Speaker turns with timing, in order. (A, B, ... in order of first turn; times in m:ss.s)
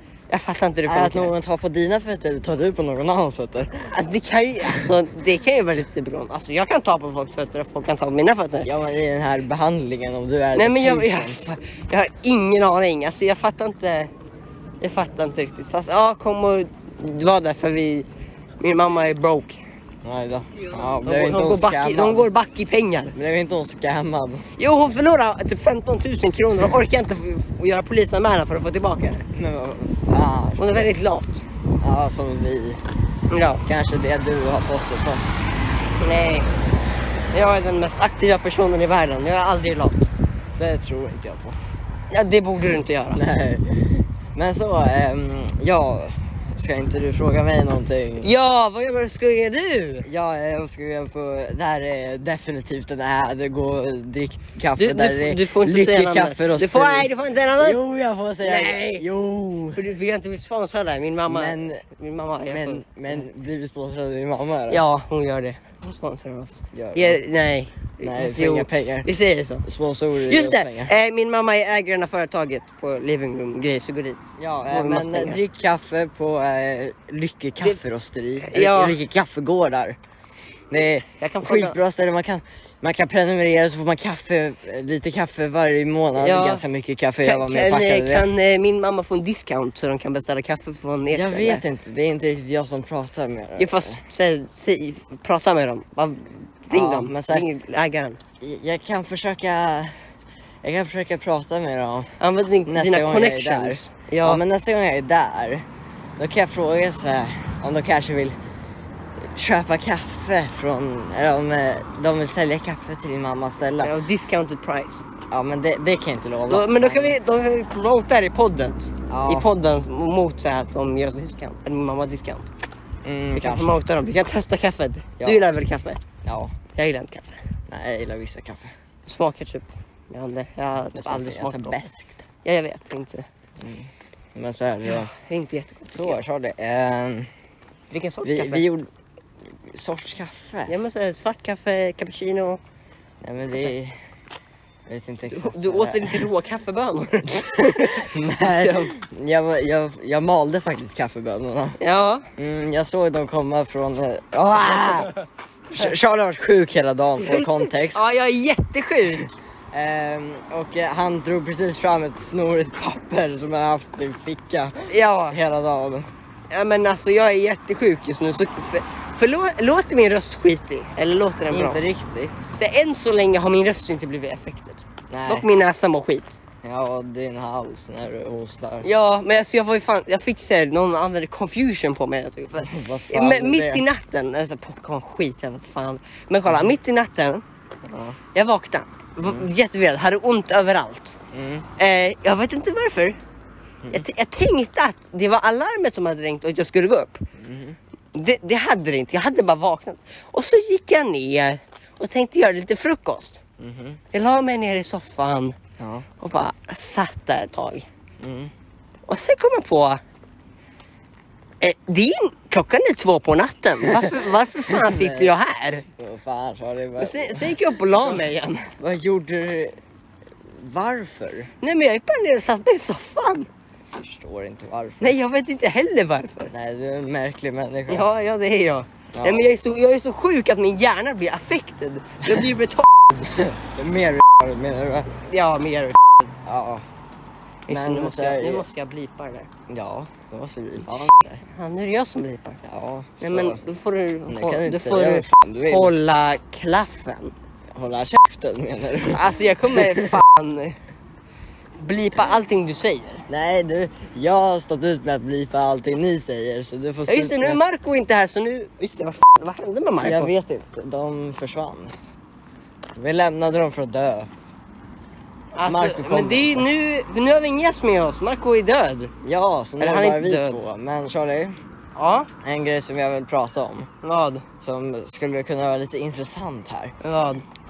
0:00.3-0:01.3 A
0:00.9-0:03.9 B
0:03.9-0:08.7 A
0:04.6-0:04.9 B
0:08.6-0:11.6 B
0:10.6-0:14.1 A
0:14.8-0:18.1 A
0:18.6-0:19.6 A
0:20.0-0:22.3 B
0:20.9-0:23.2 A
0:23.1-0:24.5 B
0:24.6-0:29.3 A
0:29.3-0:30.9 B
0:30.6-0:31.4 A
0:31.8-0:32.8 B
0:33.3-0:33.6 A
0:33.7-0:35.3 B
0:36.0-0:36.5 A
0:37.3-0:40.1 A
0:40.6-0:41.6 B
0:42.1-0:43.2 A
0:43.1-0:48.3 B
0:48.2-0:50.1 A
0:50.1-0:59.8 B
0:54.8-0:57.8 A
0:58.4-0:59.0 A
0:59.7-1:03.2 A
1:01.3-1:01.8 B
1:02.5-1:04.8 B
1:04.7-1:09.7 A
1:06.7-1:07.2 B
1:08.0-1:09.1 B
1:09.6-1:10.9 B
1:10.2-1:15.4 A
1:14.4-1:20.0 B
1:18.4-1:19.0 A
1:20.7-1:28.3 B
1:21.2-1:21.8 A
1:26.2-1:26.6 A
1:27.2-1:31.6 A
1:31.1-1:34.0 B
1:33.6-1:38.2 A
1:36.7-1:37.5 B
1:38.4-1:40.0 B
1:40.6-1:42.2 B
1:42.2-1:44.4 A
1:42.7-1:45.7 B
1:46.2-1:48.4 B
1:49.2-1:54.0 B
1:53.8-1:55.0 A
1:55.3-1:57.2 B
1:56.5-2:02.5 A
1:59.1-1:59.5 B
2:03.0-2:03.8 B
2:03.3-2:06.0 A
2:05.2-2:05.5 B
2:06.2-2:06.6 B
2:06.7-2:07.4 A
2:07.7-2:08.7 B
2:09.0-2:11.9 A
2:11.0-2:12.2 B
2:12.4-2:13.3 A
2:13.6-2:15.1 B
2:14.9-2:16.2 A
2:15.9-2:17.3 B
2:17.9-2:18.7 A
2:18.2-2:18.9 B
2:19.6-2:20.8 B
2:20.7-2:22.6 A
2:23.2-2:24.0 B
2:24.9-2:26.3 B
2:25.3-2:28.9 A
2:27.4-2:31.8 B
2:31.8-2:32.3 A
2:32.4-2:35.1 B
2:34.7-2:35.0 A
2:35.7-2:38.0 B
2:37.2-2:39.3 A
2:39.7-2:46.1 B
2:44.9-2:45.4 A
2:46.5-2:51.8 A
2:51.5-2:52.6 B
2:52.6-2:56.4 A
2:55.1-2:55.5 B
2:56.6-2:58.9 B
2:58.8-3:07.4 A
3:02.6-3:03.8 B
3:06.5-3:06.7 B
3:07.9-3:08.2 B
3:08.3-3:11.2 A
3:09.2-3:09.5 B
3:11.3-3:11.7 B
3:11.8-3:13.2 A
3:13.9-3:17.2 A
3:17.4-3:17.8 B
3:18.1-3:23.4 A
3:23.6-3:24.0 B
3:24.1-3:25.6 A
3:25.8-3:26.1 B
3:26.2-3:27.9 A
3:28.2-3:28.5 B
3:29.1-3:30.0 A
3:31.6-3:35.8 A
3:33.8-3:39.8 B
3:37.0-3:38.7 A
3:40.5-3:41.5 B
3:41.6-3:43.5 A
3:43.9-3:45.2 B
3:45.0-3:46.5 A
3:46.5-3:48.1 B
3:47.9-3:53.0 A
3:49.2-3:49.5 B
3:53.2-3:55.2 B
3:55.2-3:56.3 A
3:56.4-3:56.9 B
3:57.7-3:59.5 A
3:57.7-3:58.7 B
3:59.7-4:01.4 B
4:01.4-4:02.6 A
4:02.6-4:03.6 B
4:03.2-4:07.3 A
4:04.3-4:05.9 B
4:07.7-4:10.2 B
4:09.1-4:10.8 A
4:11.8-4:13.2 A
4:13.3-4:17.6 B
4:17.1-4:20.3 A
4:20.0-4:21.9 B
4:23.0-4:24.3 B
4:25.5-4:29.1 A
4:25.6-4:26.7 B
4:29.2-4:31.6 B
4:29.8-4:30.6 A
4:32.0-4:32.3 A
4:32.4-4:33.9 B
4:34.0-4:34.4 A
4:34.6-4:37.0 B
4:37.0-4:37.4 A